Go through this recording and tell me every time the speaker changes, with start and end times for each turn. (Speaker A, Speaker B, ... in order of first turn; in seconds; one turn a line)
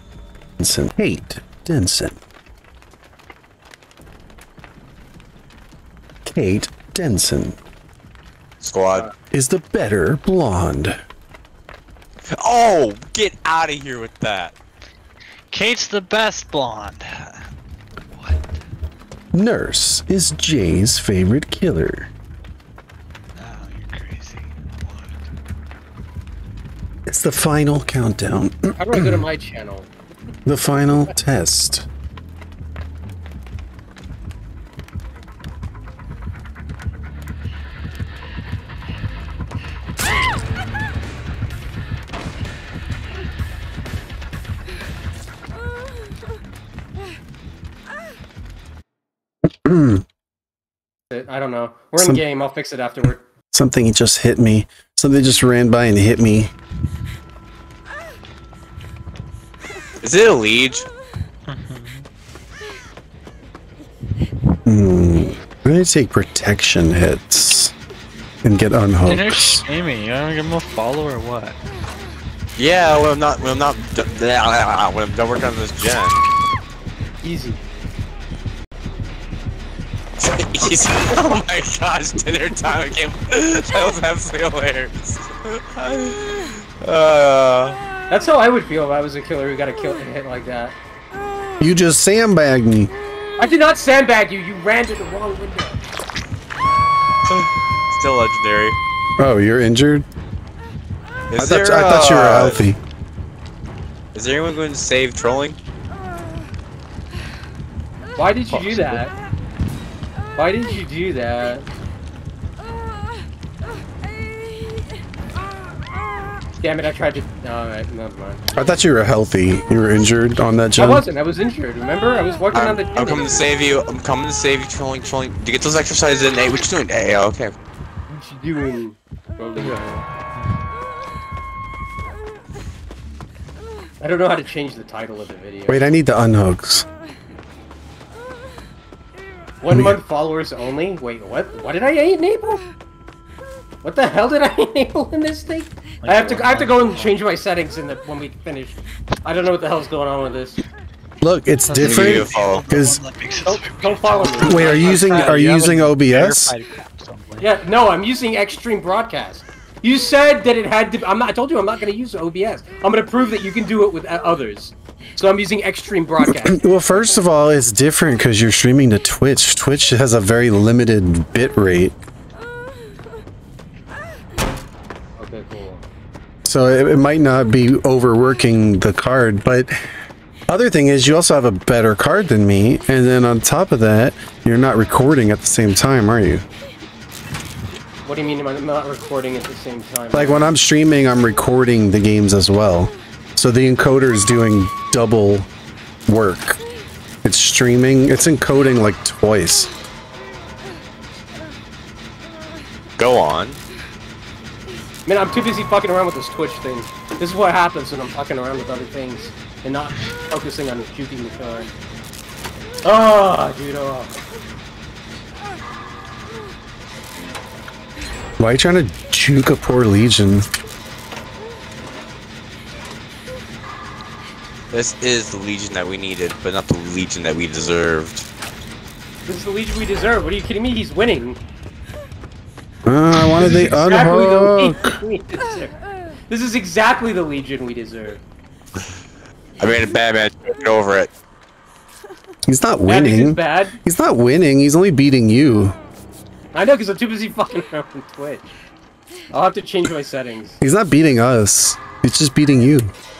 Speaker A: 0.6-2.2
Speaker A: 6.3-7.6
Speaker B: 8.6-9.1
Speaker A: 9.3-11.0
Speaker B: 12.3-14.5
Speaker C: 15.5-17.4
Speaker C: 18.1-18.6
Speaker A: 19.3-22.1
Speaker C: 23.3-25.2
Speaker A: 27.1-29.2
Speaker D: 28.8-29.9
Speaker A: 30.4-31.9
Speaker A: 49.6-50.0
Speaker D: 51.1-53.2
Speaker A: 53.5-56.5
Speaker B: 60.0-60.9
Speaker C: 61.5-62.0
Speaker A: 64.7-67.7
Speaker A: 68.4-69.7
Speaker C: 69.1-71.6
Speaker B: 72.6-76.2
Speaker D: 77.2-77.6
Speaker B: 80.2-87.8
Speaker D: 88.1-90.8
Speaker A: 91.6-92.9
Speaker D: 93.4-95.8
Speaker B: 97.3-98.8
Speaker A: 99.2-100.0
Speaker B: 101.3-102.6
Speaker A: 101.4-102.8
Speaker B: 104.1-105.6
Speaker D: 108.2-109.1
Speaker D: 110.4-111.7
Speaker D: 116.6-118.4
Speaker A: 118.5-121.0
Speaker D: 120.8-123.5
Speaker B: 122.5-127.5
Speaker D: 128.1-130.0
Speaker D: 134.0-135.8
Speaker A: 135.7-136.9
Speaker D: 139.6-142.6
Speaker A: 139.7-140.0
Speaker D: 143.8-150.6
Speaker C: 146.0-147.1
Speaker A: 151.2-153.0
Speaker C: 151.7-157.5
Speaker B: 151.8-152.6
Speaker D: 153.4-155.3
Speaker A: 154.4-156.5
Speaker D: 157.4-167.2
Speaker A: 166.2-171.9
Speaker D: 175.2-175.8
Speaker A: 176.4-179.7
Speaker A: 180.5-186.4
Speaker D: 188.1-190.5
Speaker A: 190.1-195.5
Speaker A: 196.1-196.6
Speaker A: 197.2-199.7
Speaker B: 203.0-203.6
Speaker D: 205.1-211.7
Speaker D: 212.8-214.2
Speaker A: 218.4-220.5
Speaker B: 224.7-228.3
Speaker D: 229.2-231.4
Speaker A: 232.9-234.9
Speaker D: 233.3-235.7
Speaker D: 236.3-238.2
Speaker B: 239.6-241.1
Speaker A: 242.4-245.8
Speaker D: 242.9-243.8
Speaker D: 246.5-248.5
Speaker D: 249.3-250.6
Speaker A: 250.6-252.9